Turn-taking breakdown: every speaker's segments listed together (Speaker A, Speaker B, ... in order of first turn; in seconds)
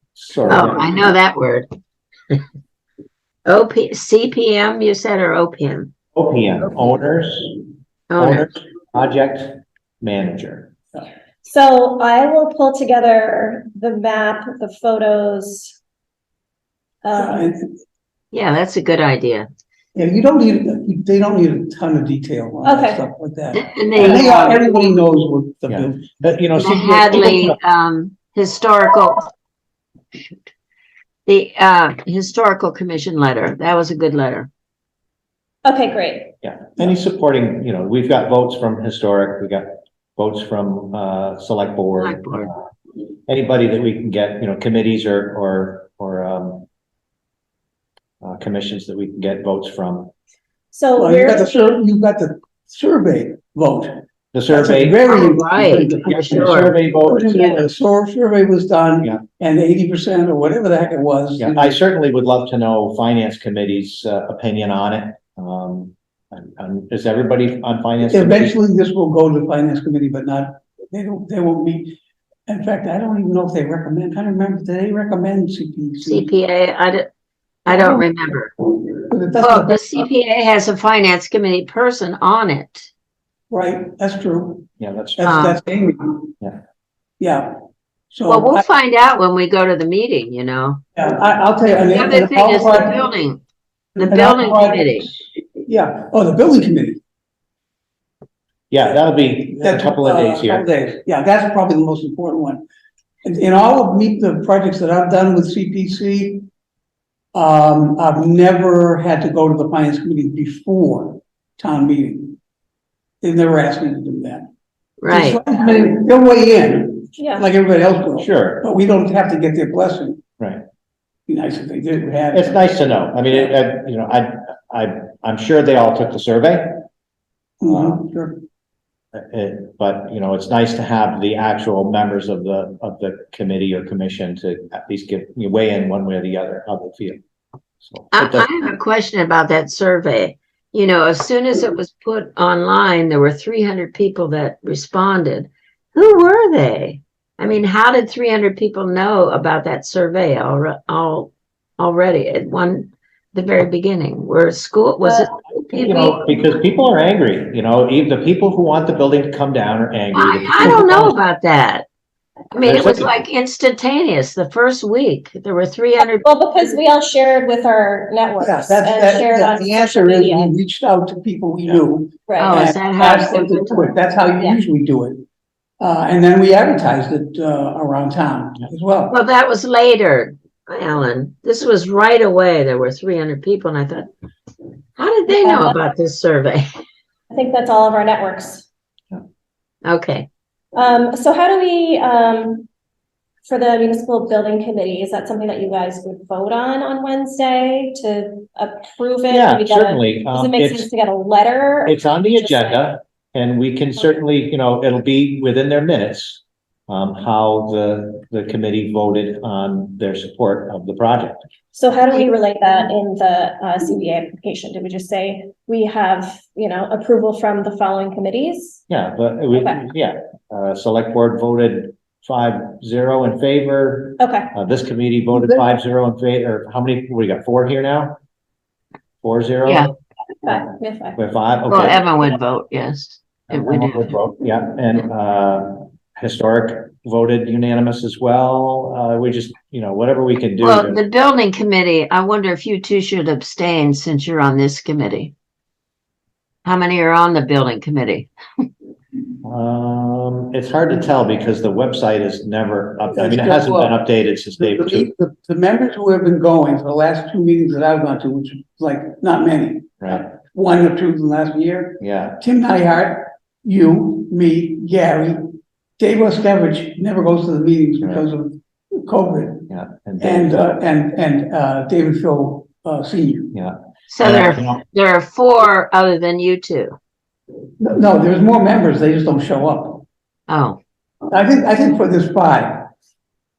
Speaker A: 0.1-1.1, 6.1-7.5, 8.2-10.7, 25.7-27.6, 36.4-42.6, 43.3-46.7, 48.2-50.1, 54.3-55.0, 56.0-57.6, 61.4-68.5, 84.8-85.3, 98.7-100.7, 118.2-118.7, 122.3-126.8, 127.6-128.0, 129.1-137.2, 137.8-138.5, 155.7-161.2, 162.6-163.2, 199.3-200.9, 201.9-211.4, 218.9-228.2, 229.2-229.9, 231.2-232.4, 233.5-241.0, 249.4-255.1, 262.0-262.4, 269.7-270.6, 273.5-274.8
Speaker B: 0.5-1.7, 3.5-5.9, 8.1-8.5, 18.3-19.5, 23.5-24.7, 26.6-29.3, 30.1-30.5, 31.3-34.5, 42.0-42.5, 55.0-56.7, 76.0-77.1, 77.7-78.5, 79.4-82.9, 85.2-85.6, 88.3-90.8, 91.9-93.4, 94.0-95.1, 115.0-115.4, 138.1-156.4, 160.1-161.9, 162.5-166.3, 172.4-173.9, 179.1-184.1, 185.0-186.7, 189.8-190.3, 229.7-229.9, 231.7-234.2, 240.6-245.3, 246.7-248.3, 274.1-277.0, 280.5-280.8
Speaker C: 11.4-15.8, 17.0-17.5, 22.6-23.0, 23.9-24.3, 35.6-36.3, 50.7-51.5, 117.2-117.5, 166.2-170.5, 172.3-172.6, 185.3-185.8, 187.3-188.7, 190.8-192.7, 193.5-202.8, 211.7-218.8, 219.5-219.8, 224.2-224.5, 230.4-231.2
Speaker D: 17.1-17.7, 19.9-26.1, 51.0-61.8, 68.1-72.0, 72.5-76.3, 77.7-78.0, 79.0-80.0, 83.5-86.3, 87.2-87.6, 88.1-88.7, 90.9-93.0, 94.0-97.0, 99.5-102.6, 103.2-106.4, 107.3-112.4, 113.2-114.5, 115.1-120.2, 121.3-122.7, 127.6-128.4, 168.4-175.2, 175.8-179.2, 225.3-225.6, 253.1-254.0, 254.6-269.7, 270.2-273.6, 277.8-280.0, 281.3-282.9